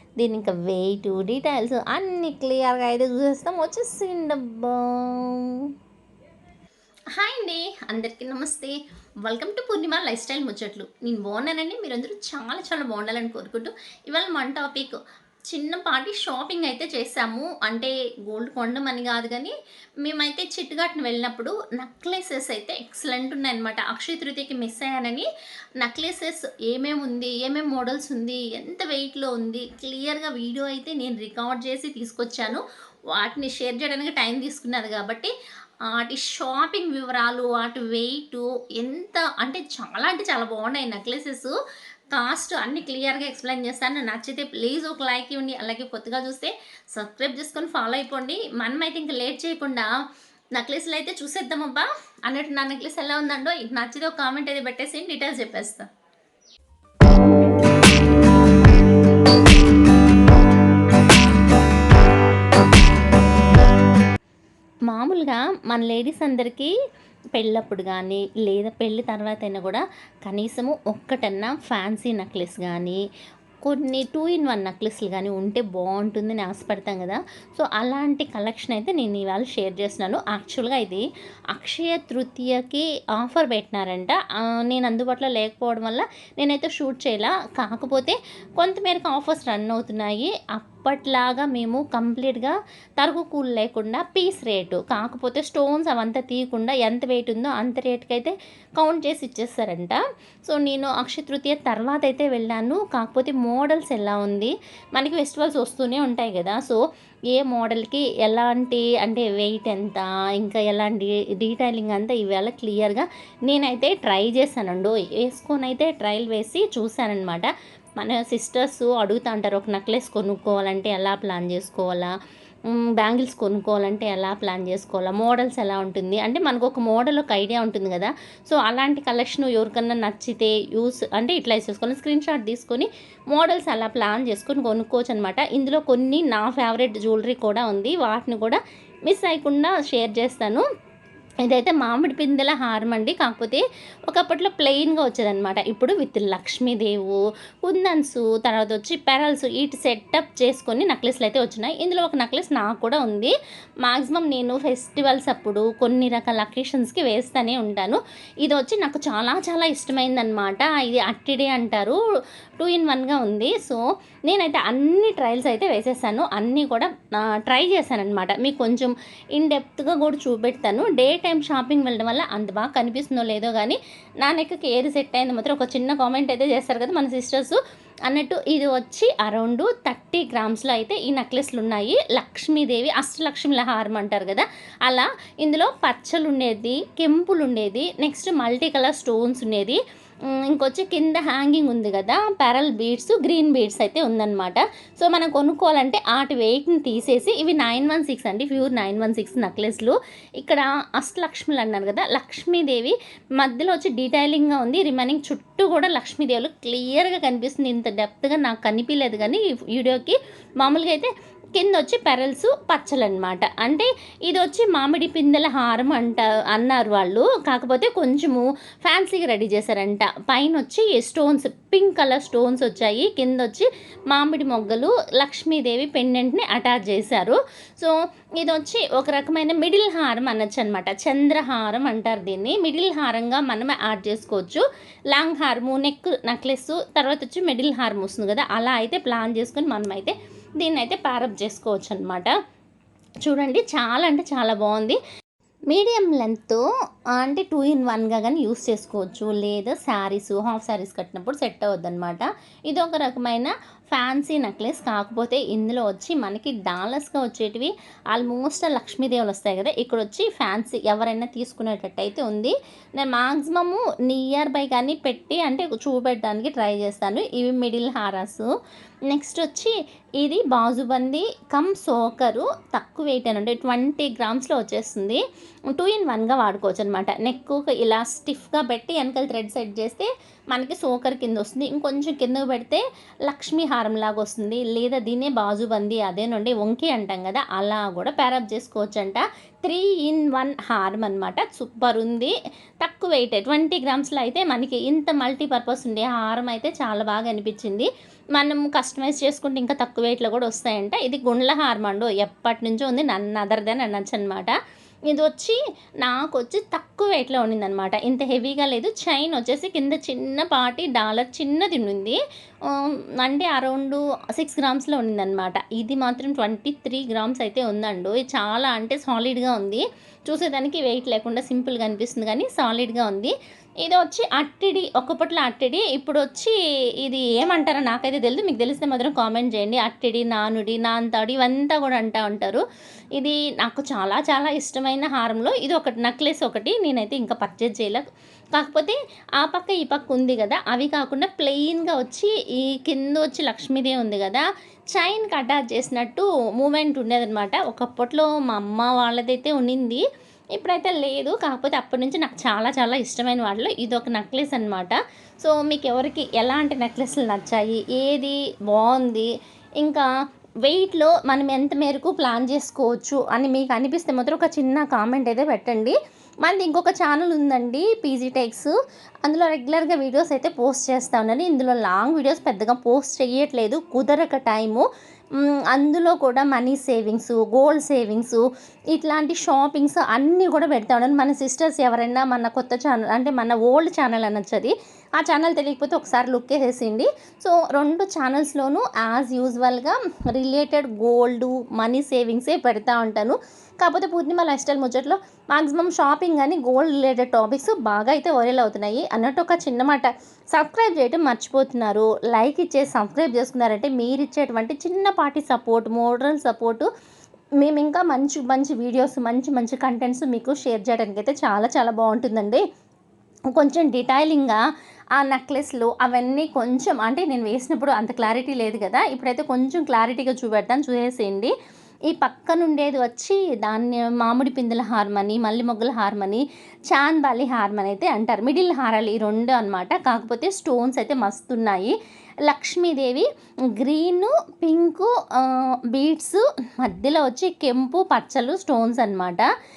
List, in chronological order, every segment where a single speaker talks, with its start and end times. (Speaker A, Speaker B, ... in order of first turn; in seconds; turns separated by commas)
Speaker A: 0.2-5.7, Speaker A: 7.1-25.3, Speaker A: 25.8-35.3, Speaker A: 35.9-41.5, Speaker A: 42.1-49.9, Speaker A: 50.5-55.9, Speaker A: 64.9-66.7, Speaker A: 67.3-73.0, Speaker A: 73.6-106.8, Speaker A: 107.3-122.1, Speaker A: 122.7-140.6, Speaker A: 141.4-153.3, Speaker A: 153.8-162.0, Speaker A: 162.6-242.3, Speaker A: 243.2-245.0, Speaker A: 245.7-246.6, Speaker A: 247.2-268.5, Speaker A: 269.1-304.5, Speaker A: 305.1-332.6, Speaker A: 333.2-338.0, Speaker A: 338.6-350.0, Speaker A: 350.5-360.1, Speaker A: 360.6-368.7, Speaker A: 369.2-374.9, Speaker A: 375.4-406.9, Speaker A: 407.6-412.6, Speaker A: 413.5-414.6, Speaker A: 415.2-421.5, Speaker A: 422.1-439.5